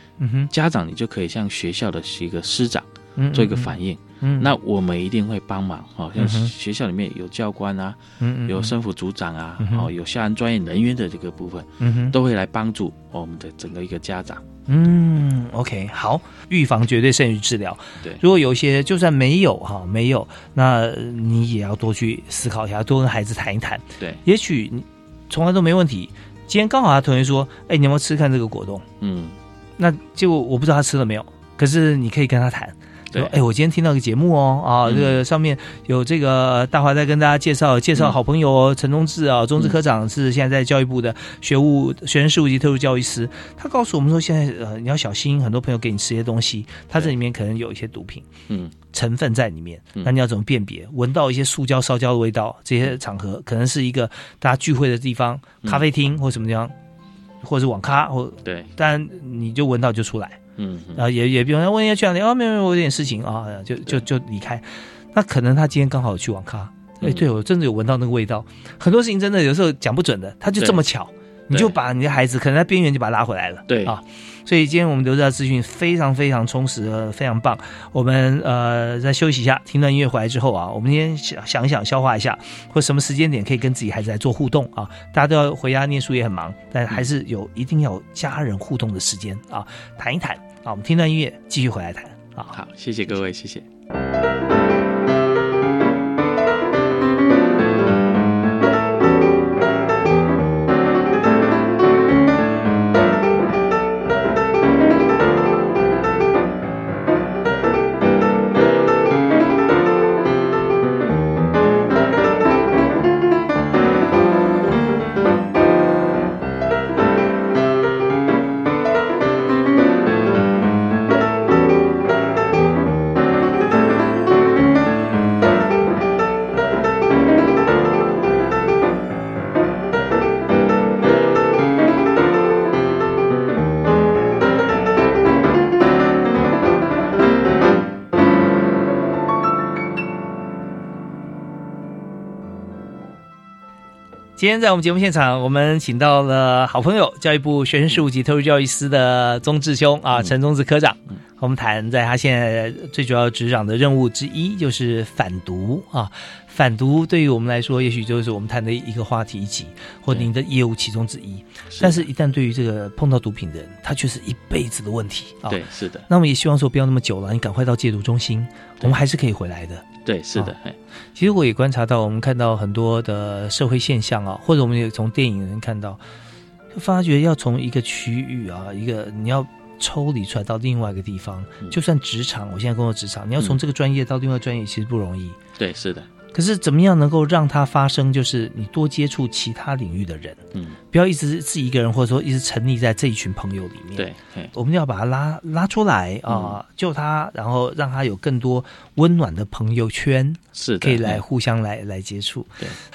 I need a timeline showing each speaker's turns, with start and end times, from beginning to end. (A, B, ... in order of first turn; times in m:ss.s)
0:00.2-0:00.5 A
0:00.5-0:14.4 B
0:03.2-0:04.5 A
0:06.2-0:06.5 A
0:08.2-0:08.7 A
0:09.6-0:09.9 A
0:11.8-0:12.2 A
0:14.7-0:28.9 A
0:29.0-0:29.4 B
0:29.8-0:48.3 A
0:34.8-0:35.2 B
0:48.5-0:48.7 B
0:48.9-0:56.7 A
0:57.4-1:00.4 A
0:58.4-0:58.7 B
1:00.6-1:01.0 B
1:00.9-1:32.5 A
1:10.6-1:10.8 B
1:13.7-1:13.9 B
1:32.5-1:33.6 B
2:24.4-2:50.5 A
2:41.7-2:42.0 B
2:45.5-2:46.1 B
2:50.0-2:50.8 B
2:51.2-2:56.0 A
2:56.7-3:05.4 A
3:05.6-3:06.1 B
3:06.3-3:10.4 A
3:10.5-3:10.8 B
3:10.9-3:22.6 A
3:14.0-3:14.5 B
3:16.3-3:16.6 B
3:20.5-3:21.2 B